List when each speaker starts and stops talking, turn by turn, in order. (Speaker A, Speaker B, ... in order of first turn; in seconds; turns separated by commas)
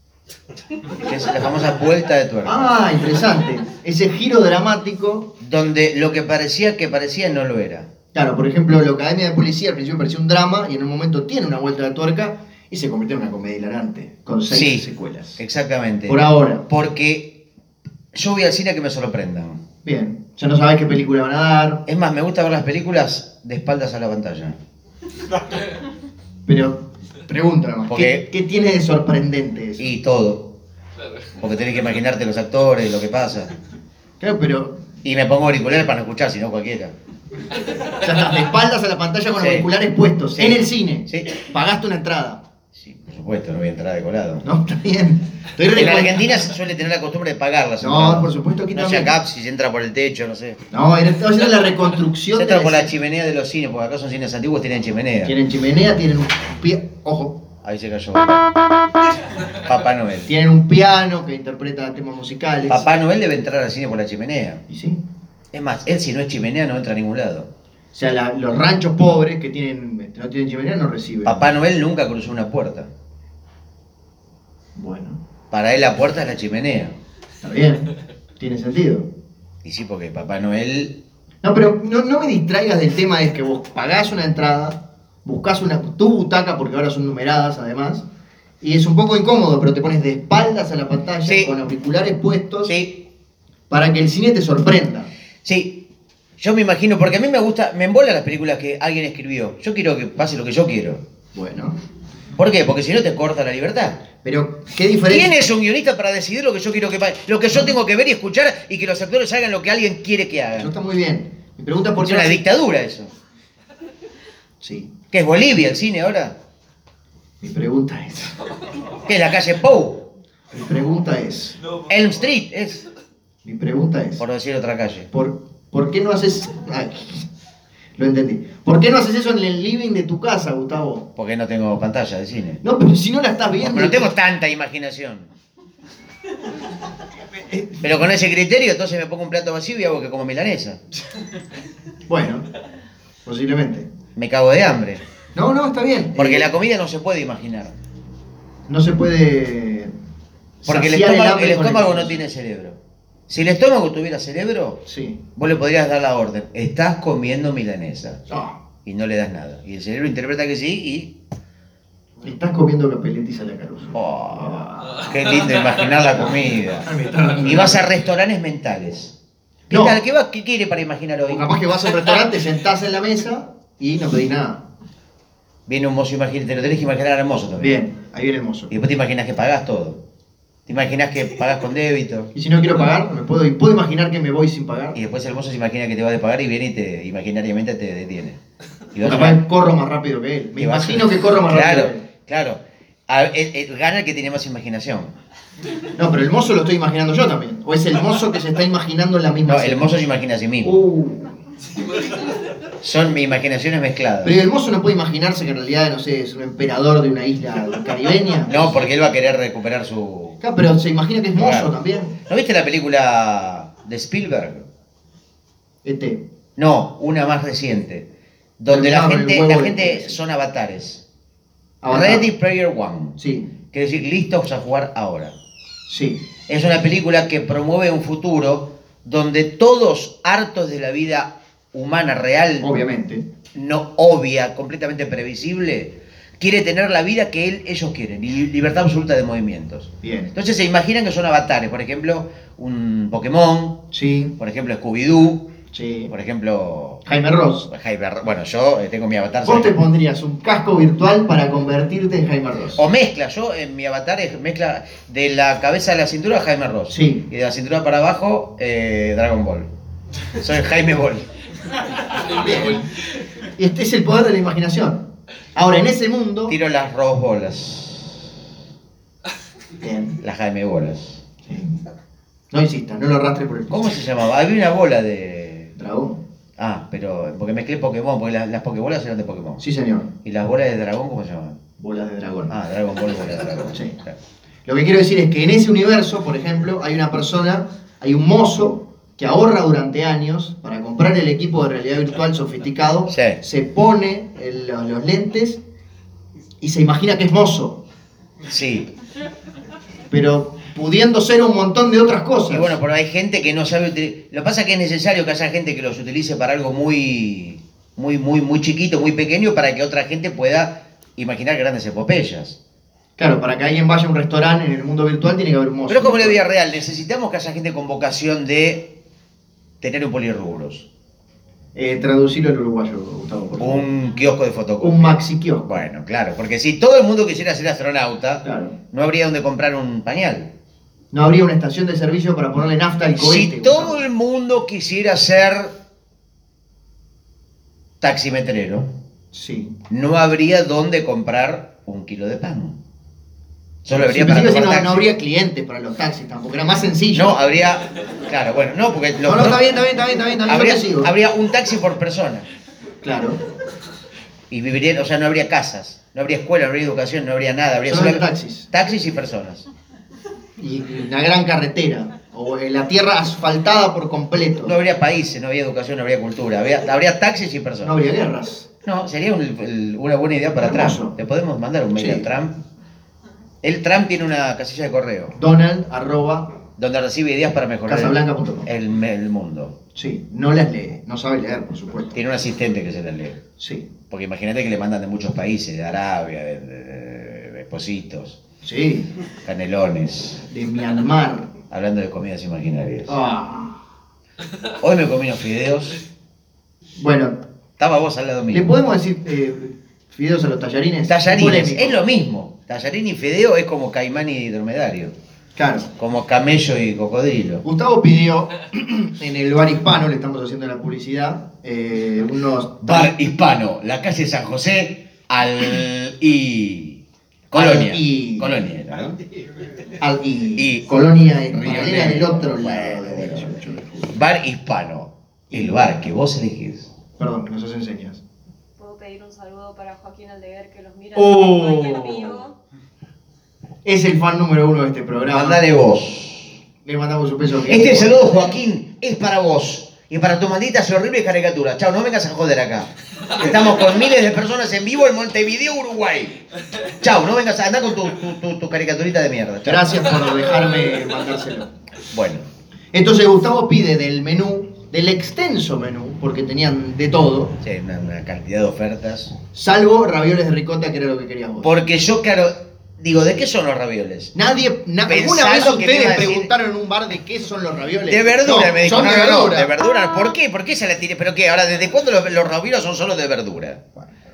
Speaker A: 0.9-2.8, Speaker B: 2.5-5.3, Speaker A: 5.4-7.9, Speaker B: 8.1-15.4, Speaker A: 14.5-14.9, Speaker A: 15.4-17.4, Speaker B: 16.1-16.7, Speaker A: 18.1-19.6, Speaker B: 19.8-21.9, Speaker A: 21.9-24.6, Speaker B: 26.5-29.9, Speaker A: 27.9-28.2, Speaker A: 29.8-30.6, Speaker A: 31.4-33.5, Speaker B: 34.2-34.8, Speaker A: 35.0-36.9, Speaker B: 38.0-42.4, Speaker A: 39.4-39.7, Speaker A: 40.3-41.4, Speaker A: 42.8-44.5, Speaker B: 44.4-46.3, Speaker A: 45.7-50.6, Speaker B: 47.8-49.1, Speaker B: 50.7-52.9, Speaker A: 52.4-55.4, Speaker B: 55.2-57.4, Speaker A: 57.6-58.5, Speaker A: 59.5-60.3, Speaker B: 60.3-62.9, Speaker A: 62.7-64.6, Speaker B: 64.7-65.0, Speaker A: 65.5-67.5, Speaker B: 67.9-71.5, Speaker A: 71.2-72.9, Speaker B: 74.8-75.2, Speaker A: 75.5-77.0, Speaker B: 77.4-79.1, Speaker A: 79.6-81.0, Speaker B: 81.4-88.0, Speaker B: 88.6-92.7, Speaker A: 91.3-91.5, Speaker A: 92.7-93.1, Speaker B: 93.7-95.1, Speaker A: 95.4-95.9, Speaker A: 96.4-101.0, Speaker B: 101.3-101.8, Speaker A: 102.4-104.0, Speaker B: 104.2-105.3, Speaker A: 105.1-110.7, Speaker B: 110.6-112.4, Speaker A: 112.0-113.1, Speaker B: 114.6-114.9, Speaker A: 115.1-116.4, Speaker B: 117.4-118.3, Speaker A: 119.1-120.1, Speaker B: 120.5-121.6, Speaker A: 121.9-122.8, Speaker B: 123.4-124.2, Speaker A: 124.2-125.1, Speaker B: 125.1-127.3, Speaker B: 128.0-131.1, Speaker A: 131.2-132.6, Speaker B: 132.6-134.1, Speaker A: 133.6-135.3, Speaker B: 137.3-137.8, Speaker A: 137.8-140.8, Speaker B: 142.1-142.5, Speaker B: 143.2-143.9, Speaker A: 144.2-145.0, Speaker B: 145.3-146.5, Speaker A: 146.2-147.8, Speaker B: 148.7-149.9, Speaker B: 150.6-152.2, Speaker A: 150.7-152.8, Speaker A: 153.3-154.8, Speaker B: 154.9-155.2, Speaker A: 155.4-158.2, Speaker B: 158.3-158.6, Speaker A: 158.8-161.2, Speaker B: 162.2-165.1, Speaker A: 163.9-166.9, Speaker B: 166.2-167.9, Speaker A: 167.4-169.2, Speaker A: 169.7-171.5, Speaker B: 169.7-170.0, Speaker B: 171.3-174.7, Speaker A: 175.7-177.8, Speaker B: 177.6-178.7, Speaker A: 178.7-180.0, Speaker A: 180.7-182.3, Speaker B: 182.3-185.0, Speaker A: 184.9-188.4, Speaker A: 188.9-189.4, Speaker B: 189.0-192.1, Speaker A: 190.6-195.1, Speaker B: 195.9-200.0, Speaker A: 199.5-200.8, Speaker B: 200.6-201.4, Speaker A: 202.8-204.4, Speaker B: 204.2-208.7, Speaker A: 208.5-210.4, Speaker B: 210.4-212.1, Speaker A: 211.3-211.7, Speaker A: 212.3-214.7, Speaker B: 215.8-216.3, Speaker A: 216.6-218.1, Speaker A: 218.6-221.0, Speaker B: 218.7-220.2, Speaker B: 221.8-222.3, Speaker A: 221.9-223.2, Speaker B: 223.2-223.5, Speaker A: 223.7-225.3, Speaker B: 225.9-226.2, Speaker A: 226.5-232.7, Speaker B: 232.6-233.3, Speaker A: 233.5-243.9, Speaker B: 240.0-240.3, Speaker B: 243.9-244.3, Speaker A: 244.4-245.5, Speaker B: 245.7-246.1, Speaker A: 246.1-247.0, Speaker B: 247.1-247.7, Speaker A: 247.7-249.7, Speaker B: 249.4-252.8, Speaker A: 252.8-259.7, Speaker B: 256.9-257.2, Speaker A: 260.4-261.3, Speaker B: 262.2-262.9, Speaker B: 263.6-266.6, Speaker A: 266.5-268.3, Speaker B: 269.8-270.2, Speaker A: 270.2-271.2, Speaker B: 271.5-271.8, Speaker B: 272.5-274.0, Speaker A: 273.7-275.7, Speaker B: 275.8-276.2, Speaker A: 276.6-279.6, Speaker B: 279.6-280.1, Speaker A: 280.2-281.6, Speaker B: 281.8-282.6, Speaker A: 282.5-284.2, Speaker B: 284.7-295.6, Speaker A: 293.1-293.4, Speaker B: 296.6-297.8, Speaker A: 298.5-298.9, Speaker B: 300.1-302.8, Speaker A: 302.5-312.6, Speaker B: 313.2-316.4, Speaker A: 315.9-319.0, Speaker A: 319.8-320.9, Speaker B: 321.8-323.8, Speaker A: 323.6-330.5, Speaker B: 324.8-325.7, Speaker B: 328.4-328.8, Speaker B: 331.1-334.0, Speaker A: 333.2-335.7, Speaker A: 338.0-338.9, Speaker B: 339.3-339.8, Speaker A: 339.9-342.8, Speaker A: 343.9-345.1, Speaker B: 343.9-347.4, Speaker A: 347.1-349.7, Speaker B: 349.2-351.1, Speaker A: 350.5-352.5, Speaker B: 353.0-353.4, Speaker A: 354.5-359.7, Speaker B: 357.9-358.7, Speaker B: 360.6-364.8, Speaker A: 364.6-368.0, Speaker B: 367.8-368.7, Speaker A: 368.8-372.6, Speaker B: 370.6-371.2, Speaker B: 372.0-372.3, Speaker A: 373.6-375.4, Speaker B: 375.4-376.5, Speaker A: 376.8-379.8, Speaker B: 377.9-378.7, Speaker B: 379.9-382.2, Speaker A: 382.1-383.4, Speaker B: 383.6-383.9, Speaker A: 384.1-388.4, Speaker B: 388.6-389.1, Speaker A: 389.4-390.4, Speaker B: 390.5-391.5, Speaker A: 391.7-393.2, Speaker B: 393.1-393.8, Speaker A: 394.8-396.0, Speaker B: 397.0-397.4, Speaker A: 397.8-398.7, Speaker B: 398.5-402.0, Speaker A: 401.1-405.1, Speaker B: 405.6-405.9, Speaker A: 406.0-407.6, Speaker B: 407.6-413.1, Speaker A: 412.8-419.2, Speaker B: 417.5-418.5, Speaker B: 420.0-424.2, Speaker A: 420.6-420.9, Speaker A: 421.5-423.6, Speaker A: 424.1-426.9, Speaker B: 425.5-425.8, Speaker B: 427.2-428.2, Speaker C: 428.8-432.5, Speaker B: 431.1-432.4, Speaker B: 433.9-435.6, Speaker A: 435.3-436.6, Speaker B: 436.9-438.2, Speaker A: 437.6-450.2, Speaker B: 449.6-451.7, Speaker A: 452.1-452.5, Speaker B: 452.9-457.6, Speaker A: 457.6-459.4, Speaker B: 459.5-461.8, Speaker A: 461.6-464.3, Speaker B: 464.4-469.7, Speaker A: 465.1-466.5, Speaker A: 468.1-473.8